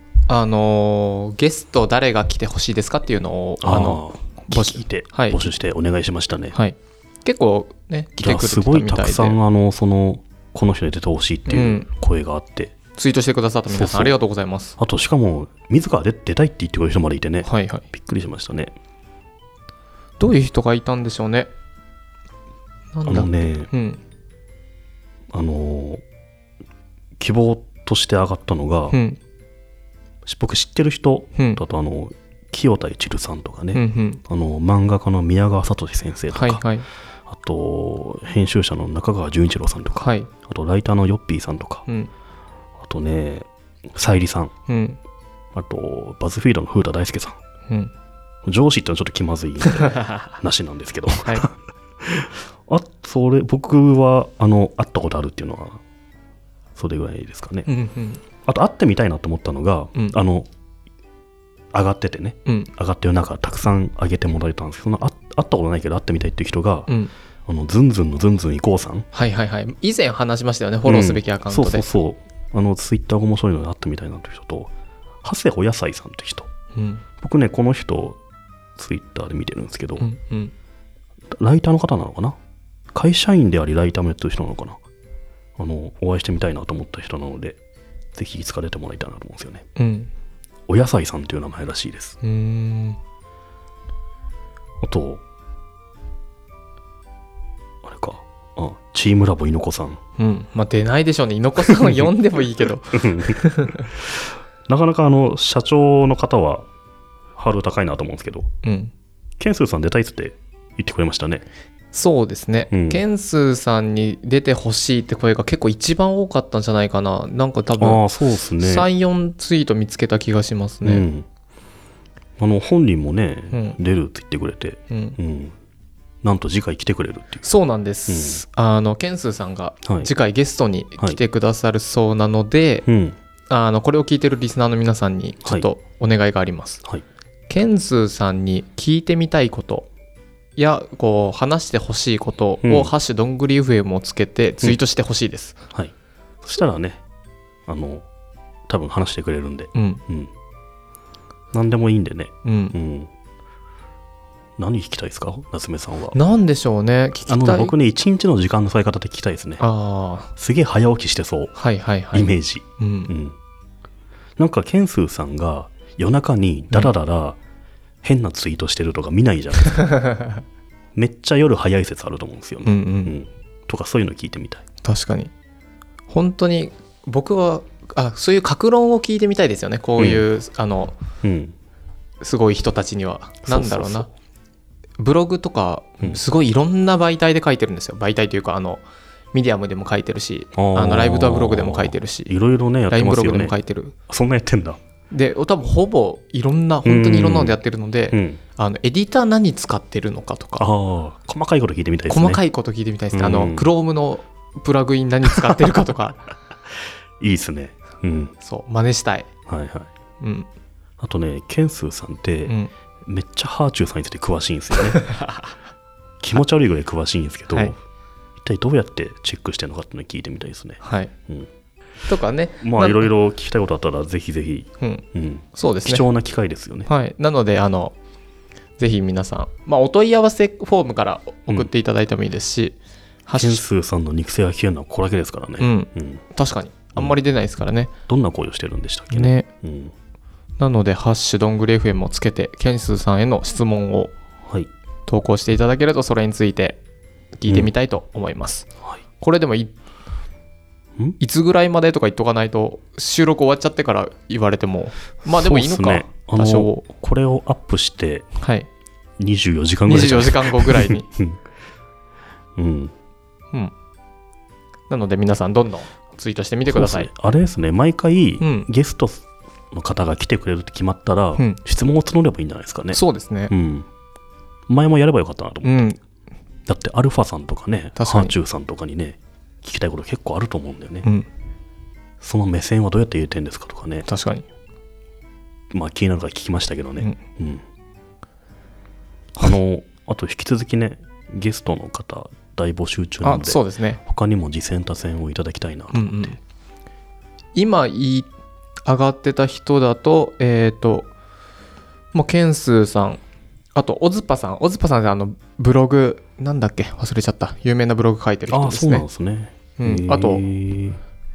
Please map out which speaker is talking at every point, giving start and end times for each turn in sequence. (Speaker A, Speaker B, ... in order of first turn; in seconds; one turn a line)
Speaker A: 0.3-5.5
Speaker B: 3.6-6.6
Speaker A: 6.5-9.4
Speaker B: 8.2-12.8
Speaker A: 11.5-11.9
Speaker A: 12.9-14.8
Speaker B: 13.7-14.2
Speaker B: 14.8-18.8
Speaker A: 17.4-17.9
Speaker A: 20.2-21.5
Speaker A: 22.9-24.0
Speaker B: 23.1-23.7
Speaker B: 25.3-26.0
Speaker B: 27.2-29.0
Speaker A: 28.9-29.2
Speaker B: 30.2-36.6
Speaker A: 31.4-31.6
Speaker A: 33.7-34.2
Speaker A: 36.3-36.9
Speaker B: 37.3-41.9
Speaker A: 40.0-40.3
Speaker B: 42.8-44.5
Speaker A: 44.7-45.0
Speaker B: 45.5-47.4
Speaker B: 48.5-55.8
Speaker B: 56.8-57.7
Speaker A: 57.7-58.2
Speaker B: 58.5-60.5
Speaker B: 61.7-66.9
Speaker B: 67.5-69.1
Speaker A: 69.1-71.9
Speaker B: 70.9-74.7
Speaker B: 75.2-76.5
Speaker A: 76.8-77.0
Speaker B: 77.2-78.2
Speaker B: 78.8-80.1
Speaker A: 80.0-80.5
Speaker B: 81.4-82.3
Speaker B: 82.9-84.8
Speaker B: 85.6-87.6
Speaker B: 88.2-89.6
Speaker A: 89.8-90.1
Speaker B: 90.7-92.2
Speaker A: 92.2-93.0
Speaker B: 94.8-95.2
Speaker B: 97.8-100.0
Speaker A: 100.2-103.9
Speaker B: 101.8-102.1
Speaker B: 102.9-106.7
Speaker B: 107.4-108.5
Speaker A: 108.6-108.9
Speaker B: 109.4-111.5
Speaker A: 111.9-118.0
Speaker B: 112.7-113.0
Speaker B: 117.8-118.9
Speaker A: 118.6-121.1
Speaker B: 120.8-121.3
Speaker B: 122.4-125.5
Speaker A: 123.5-123.8
Speaker A: 124.9-125.2
Speaker B: 126.2-127.4
Speaker A: 127.4-132.8
Speaker B: 128.1-128.4
Speaker B: 132.8-133.2
Speaker A: 133.5-136.8
Speaker A: 137.5-139.9
Speaker A: 140.6-145.6
Speaker B: 142.6-142.9
Speaker B: 145.7-147.0
Speaker B: 147.7-148.1
Speaker B: 148.7-150.3
Speaker A: 149.8-150.0
Speaker B: 151.5-153.1
Speaker A: 152.4-152.8
Speaker B: 154.6-156.2
Speaker A: 156.1-157.8
Speaker B: 157.3-159.7
Speaker A: 159.6-160.3
Speaker B: 160.4-161.6
Speaker A: 161.6-163.1
Speaker B: 162.1-163.4
Speaker B: 164.4-167.4
Speaker B: 168.0-170.0
Speaker A: 169.8-170.3
Speaker B: 170.9-174.6
Speaker A: 172.6-173.1
Speaker A: 174.8-175.3
Speaker A: 176.1-180.9
Speaker B: 180.0-180.2
Speaker B: 181.2-181.6
Speaker A: 182.2-184.1
Speaker B: 183.5-184.1
Speaker A: 185.0-192.3
Speaker B: 190.6-193.6
Speaker A: 192.9-193.9
Speaker B: 194.1-194.8
Speaker A: 195.1-200.7
Speaker B: 196.8-197.6
Speaker B: 198.1-198.4
Speaker B: 200.6-202.4
Speaker A: 202.1-206.3
Speaker B: 203.1-203.7
Speaker B: 207.2-208.3
Speaker A: 208.4-209.3
Speaker B: 209.5-209.9
Speaker A: 210.2-210.5
Speaker B: 211.0-212.6
Speaker B: 213.1-215.1
Speaker A: 215.0-215.3
Speaker B: 216.2-217.8
Speaker B: 218.4-221.5
Speaker A: 220.8-221.1
Speaker A: 222.1-223.1
Speaker B: 222.6-226.9
Speaker A: 224.8-226.1
Speaker A: 226.9-227.9
Speaker A: 228.8-233.6
Speaker B: 233.3-236.2
Speaker A: 235.6-237.9
Speaker B: 238.1-239.9
Speaker A: 239.1-239.5
Speaker A: 240.6-244.1
Speaker A: 245.1-246.8
Speaker A: 247.4-248.7
Speaker B: 247.5-247.7
Speaker A: 249.2-249.8
Speaker A: 251.2-256.9
Speaker B: 255.2-258.3
Speaker A: 258.4-258.7
Speaker B: 259.2-261.4
Speaker A: 259.9-261.1
Speaker B: 262.6-262.9
Speaker A: 264.9-267.1
Speaker B: 266.6-273.9
Speaker A: 268.4-268.7
Speaker A: 272.9-273.5
Speaker B: 274.7-275.8
Speaker A: 275.6-276.0
Speaker B: 276.7-281.1
Speaker A: 278.0-278.3
Speaker B: 282.2-284.1
Speaker A: 284.1-284.4
Speaker B: 285.7-287.6
Speaker B: 289.4-296.4
Speaker A: 293.2-294.0
Speaker A: 295.9-296.4
Speaker A: 297.6-298.3
Speaker A: 298.9-301.1
Speaker A: 302.1-303.2
Speaker A: 303.8-309.1
Speaker B: 308.5-311.0
Speaker A: 309.8-310.4